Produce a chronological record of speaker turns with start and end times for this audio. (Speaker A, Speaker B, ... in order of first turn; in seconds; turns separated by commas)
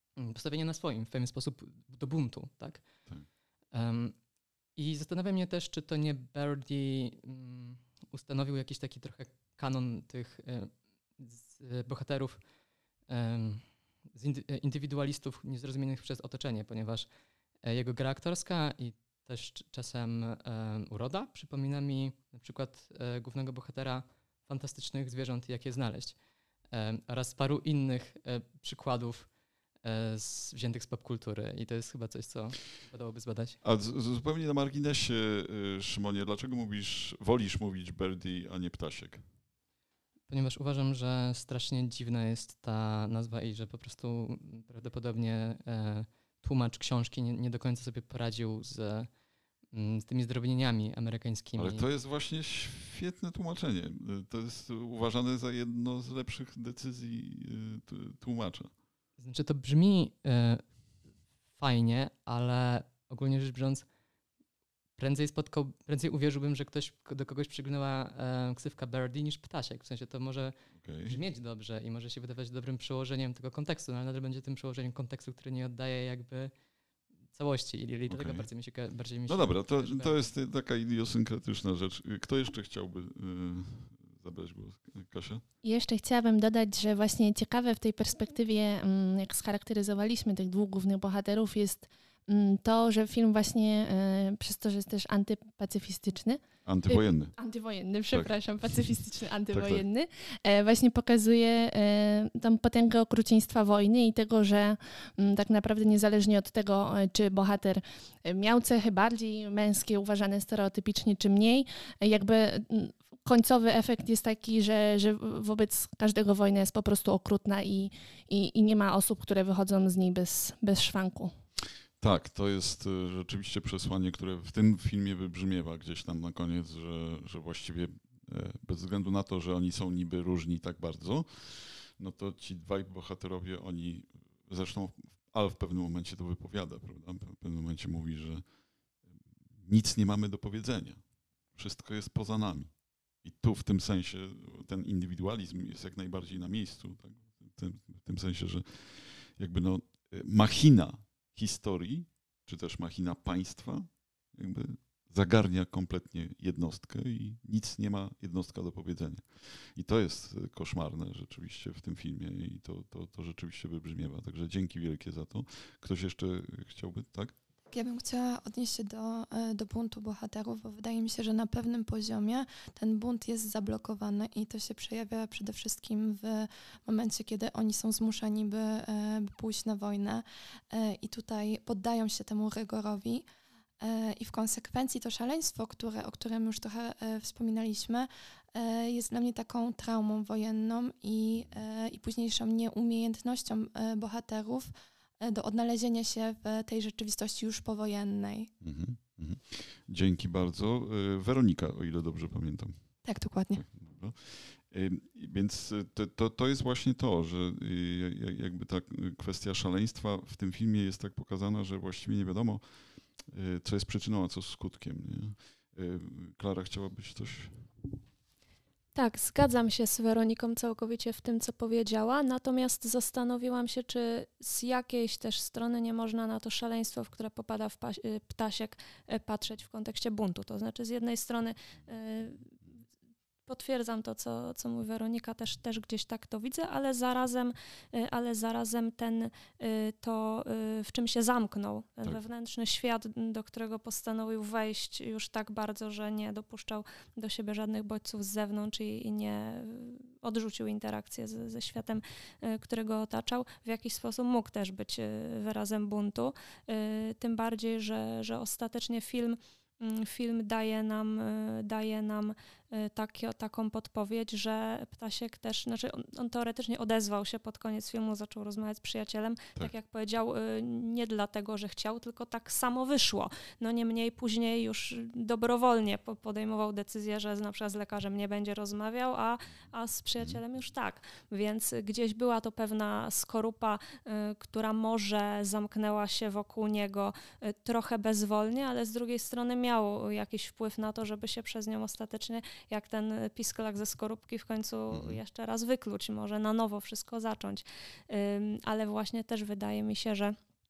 Speaker A: 0.1-33.6, Speaker B: 33.6-39.2, Speaker A: 40.3-51.9, Speaker B: 51.5-58.8, Speaker A: 59.2-63.9, Speaker A: 65.0-80.3, Speaker B: 70.7-71.2, Speaker B: 78.1-85.4, Speaker C: 85.6-121.3, Speaker B: 96.6-97.3, Speaker B: 98.1-99.0, Speaker B: 99.5-99.8, Speaker B: 122.0-167.4, Speaker D: 167.7-198.5, Speaker B: 198.6-217.7, Speaker D: 203.0-203.7, Speaker E: 218.9-232.6, Speaker E: 233.4-300.4, Speaker B: 294.9-295.2